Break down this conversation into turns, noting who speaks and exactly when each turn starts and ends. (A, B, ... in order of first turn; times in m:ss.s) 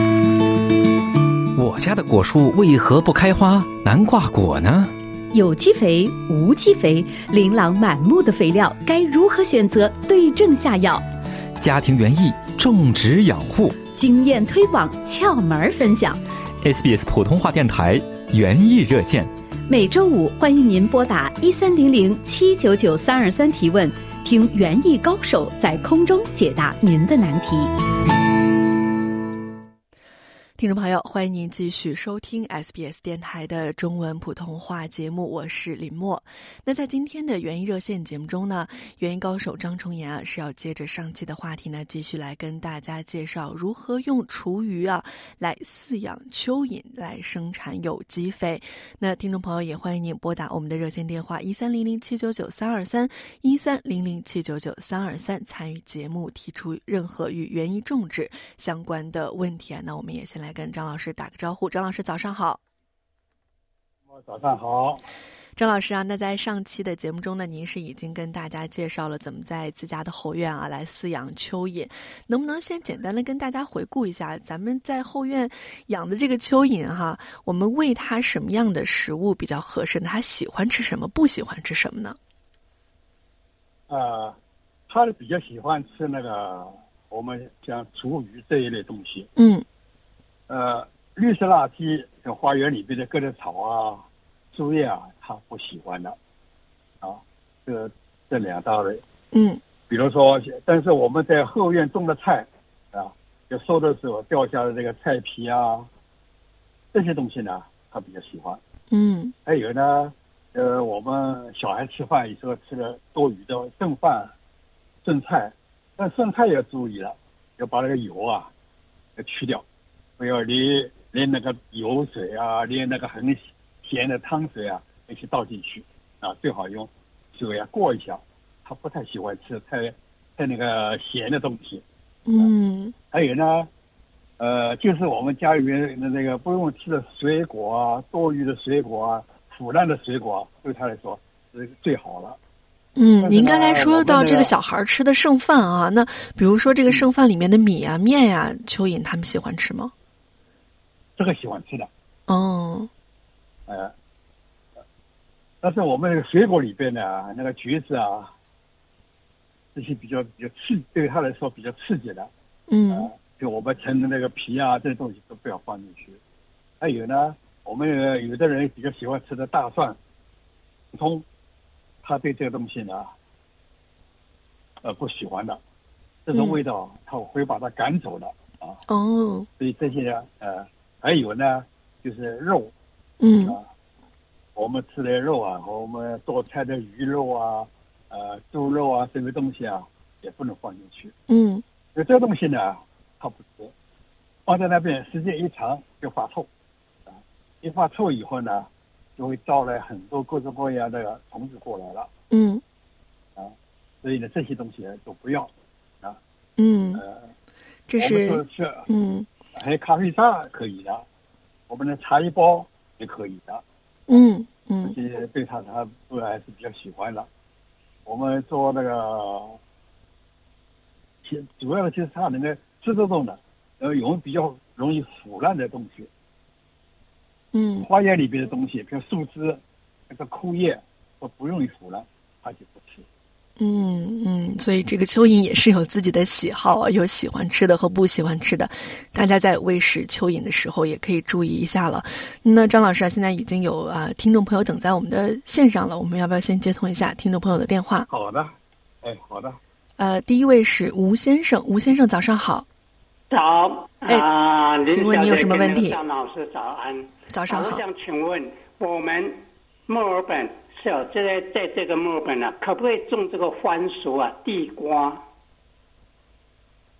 0:01.5-0:04.9 A
0:05.3-0:11.0 B
0:11.6-0:13.8 A
0:13.8-0:16.2 B
0:16.6-0:19.3 A
0:19.7-0:27.7 B
0:30.6-1:02.6 C
1:04.1-1:05.0 D
1:05.6-1:22.2 C
1:23.9-1:24.4 D
1:24.9-1:29.3 D
1:29.4-1:29.6 C
1:30.5-1:36.2 D
1:37.0-1:39.0 D
1:39.3-1:39.6 C
1:39.9-1:45.9 D
1:46.9-1:48.6 D
1:48.9-1:49.3 C
1:49.4-1:54.3 D
1:55.0-1:58.5 D
1:59.2-1:59.6 D
2:00.2-2:11.8 D
2:12.2-2:12.9 C
2:13.1-2:13.7 D
2:14.4-2:22.4 D
2:23.0-2:29.9 C
2:23.2-2:24.5 D
2:31.2-2:31.9 D
2:32.3-2:32.9 C
2:33.7-2:33.9 D
2:35.6-2:38.3 D
2:39.7-2:42.3 D
2:42.7-2:43.1 C
2:42.9-2:46.2 D
2:46.8-2:50.0 D
2:50.9-2:51.2 D
2:52.0-2:53.1 D
2:54.8-2:55.6 D
2:56.2-2:58.8 D
2:56.3-2:56.6 C
2:58.9-2:59.5 C
2:59.6-3:02.7 D
3:03.2-3:03.6 C
3:04.6-3:11.1 D
3:11.3-3:11.6 C
3:11.9-3:13.7 D
3:14.4-3:16.5 D
3:17.1-3:22.1 D
3:22.3-3:22.6 C
3:23.4-3:25.5 D
3:26.6-3:27.0 C
3:27.0-3:27.3 D
3:27.9-3:29.3 C
3:28.0-3:28.8 D
3:29.5-3:31.0 D
3:31.7-3:33.6 D
3:34.1-3:35.0 C
3:34.8-3:37.3 D
3:38.0-3:39.6 D
3:41.2-3:46.1 D
3:47.5-3:47.9 C
3:47.8-3:53.0 D
3:53.6-4:08.1 C
4:08.1-4:09.6 D
4:10.0-4:12.6 C
4:13.3-4:25.2 E
4:14.8-4:16.0 C
4:17.3-4:17.8 C